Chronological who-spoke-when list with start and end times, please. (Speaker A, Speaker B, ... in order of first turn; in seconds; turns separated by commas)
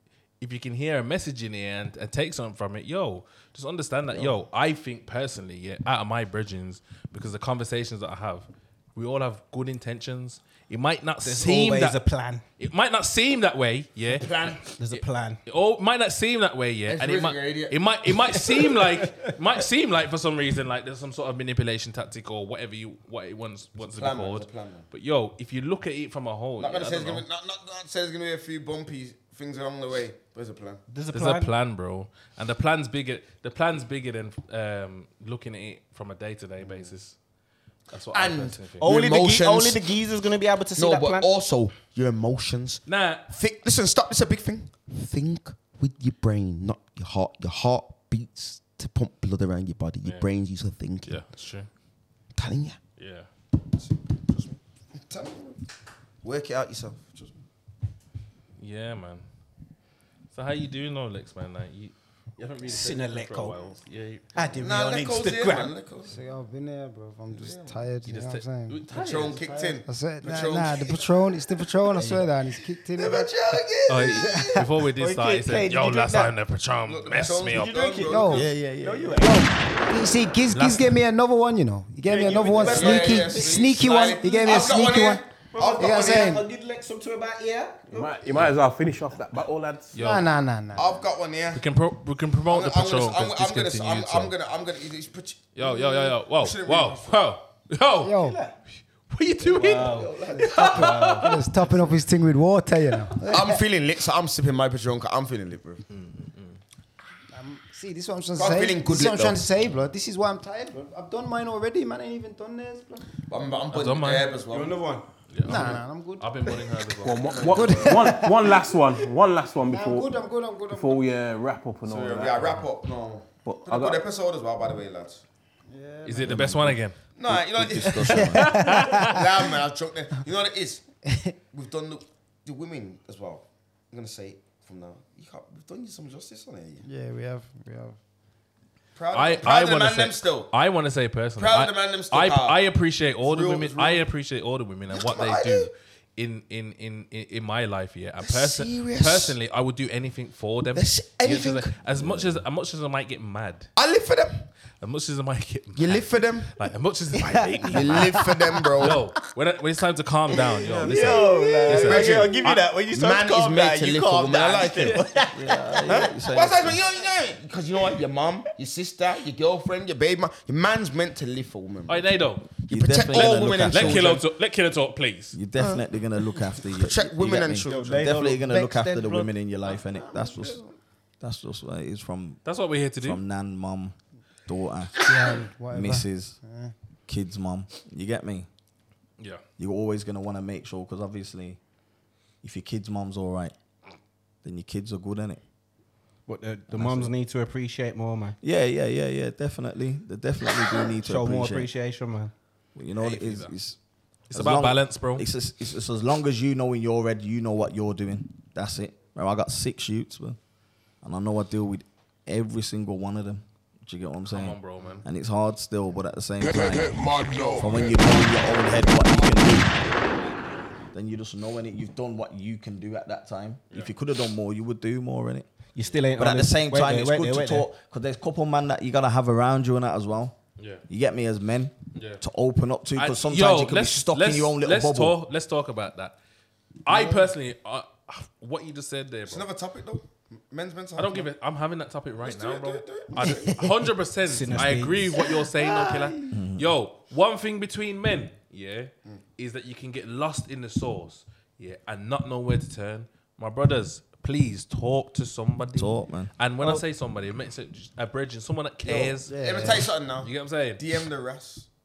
Speaker A: 0.4-12.0, Speaker B: 11.2-12.4, Speaker A: 12.6-27.3, Speaker C: 14.2-14.7, Speaker B: 14.8-15.4, Speaker C: 16.9-18.4, Speaker C: 23.8-24.9, Speaker C: 26.6-30.8, Speaker B: 30.9-31.5, Speaker A: 31.1-37.2, Speaker C: 36.6-36.9, Speaker A: 37.9-38.9, Speaker C: 38.1-39.8, Speaker B: 38.8-41.3, Speaker C: 40.8-51.2, Speaker A: 42.9-43.3, Speaker A: 50.0-50.3, Speaker A: 51.0-51.7, Speaker C: 52.4-52.8, Speaker A: 53.0-53.3, Speaker C: 53.8-55.6, Speaker C: 56.2-57.3, Speaker A: 58.6-59.2, Speaker A: 60.3-64.4, Speaker B: 62.7-63.6, Speaker B: 64.3-65.8, Speaker C: 64.6-66.2, Speaker D: 66.0-68.9, Speaker C: 67.3-67.8, Speaker A: 68.0-69.5, Speaker C: 68.9-71.3, Speaker D: 69.5-73.3, Speaker C: 72.9-74.7, Speaker A: 73.9-77.8, Speaker D: 74.2-74.7, Speaker B: 75.0-76.4, Speaker C: 76.8-78.5, Speaker B: 77.5-79.4, Speaker D: 78.1-78.5, Speaker E: 78.3-79.4, Speaker D: 79.2-86.4, Speaker A: 80.5-81.0, Speaker B: 82.0-83.8, Speaker C: 82.2-86.3, Speaker B: 85.4-88.3, Speaker F: 87.9-89.9, Speaker A: 89.9-90.3, Speaker D: 90.0-91.1, Speaker C: 90.8-91.6, Speaker A: 91.5-94.3, Speaker C: 92.5-97.2, Speaker A: 95.5-98.2, Speaker D: 98.0-98.4, Speaker B: 98.2-98.5, Speaker A: 99.1-101.3, Speaker B: 99.4-101.5, Speaker C: 99.6-100.7, Speaker D: 100.3-103.6, Speaker C: 103.3-105.8, Speaker A: 105.9-106.6, Speaker D: 107.3-113.1, Speaker C: 108.4-109.5, Speaker C: 113.2-114.8, Speaker A: 113.7-114.4, Speaker B: 114.5-115.1, Speaker A: 115.3-118.0, Speaker D: 115.4-118.7, Speaker F: 117.0-122.7, Speaker C: 117.3-117.8, Speaker D: 119.7-121.1, Speaker C: 121.8-125.2, Speaker F: 123.4-124.0, Speaker D: 125.7-126.5, Speaker A: 126.0-127.0, Speaker E: 126.2-128.6, Speaker C: 127.2-128.3, Speaker D: 127.8-129.3, Speaker A: 128.3-129.2, Speaker C: 129.0-130.8, Speaker C: 131.5-136.8, Speaker D: 136.8-138.0, Speaker C: 138.9-140.5, Speaker A: 139.1-153.7, Speaker C: 141.4-142.6, Speaker C: 143.2-144.1, Speaker C: 144.9-145.7, Speaker C: 148.2-149.4, Speaker C: 150.7-151.7, Speaker E: 152.0-152.4, Speaker C: 153.8-154.5, Speaker A: 154.8-162.6, Speaker C: 155.8-156.5, Speaker C: 157.7-159.0, Speaker C: 160.6-165.1, Speaker B: 160.8-166.1, Speaker D: 161.2-161.8, Speaker E: 165.3-166.8, Speaker C: 165.9-174.2, Speaker A: 171.9-172.5, Speaker E: 172.7-174.2, Speaker A: 173.1-175.4, Speaker E: 175.3-180.6, Speaker C: 175.6-175.8, Speaker C: 176.8-178.6, Speaker B: 177.6-179.3, Speaker C: 179.7-180.7, Speaker E: 181.2-182.4, Speaker A: 182.4-183.2, Speaker E: 183.0-186.4, Speaker D: 185.0-186.7, Speaker E: 187.1-188.5, Speaker E: 189.6-191.6, Speaker E: 192.4-193.5, Speaker E: 194.4-195.4, Speaker B: 196.3-198.4, Speaker E: 196.7-197.1, Speaker E: 198.4-201.7, Speaker B: 201.0-202.3, Speaker E: 202.8-203.8, Speaker A: 203.0-203.6, Speaker A: 204.3-205.3, Speaker E: 204.3-210.4, Speaker E: 211.0-219.8, Speaker A: 214.3-215.1, Speaker E: 220.9-225.5, Speaker B: 225.8-227.7, Speaker E: 226.2-230.4, Speaker A: 230.6-230.8, Speaker E: 230.9-235.2, Speaker A: 231.9-232.2, Speaker A: 232.9-236.2, Speaker A: 236.8-239.5, Speaker C: 236.9-237.3, Speaker C: 239.3-241.3, Speaker A: 241.0-260.9, Speaker C: 242.2-243.8, Speaker B: 244.2-245.2, Speaker E: 246.3-246.7, Speaker E: 255.8-256.3, Speaker C: 258.9-261.7, Speaker D: 259.3-259.9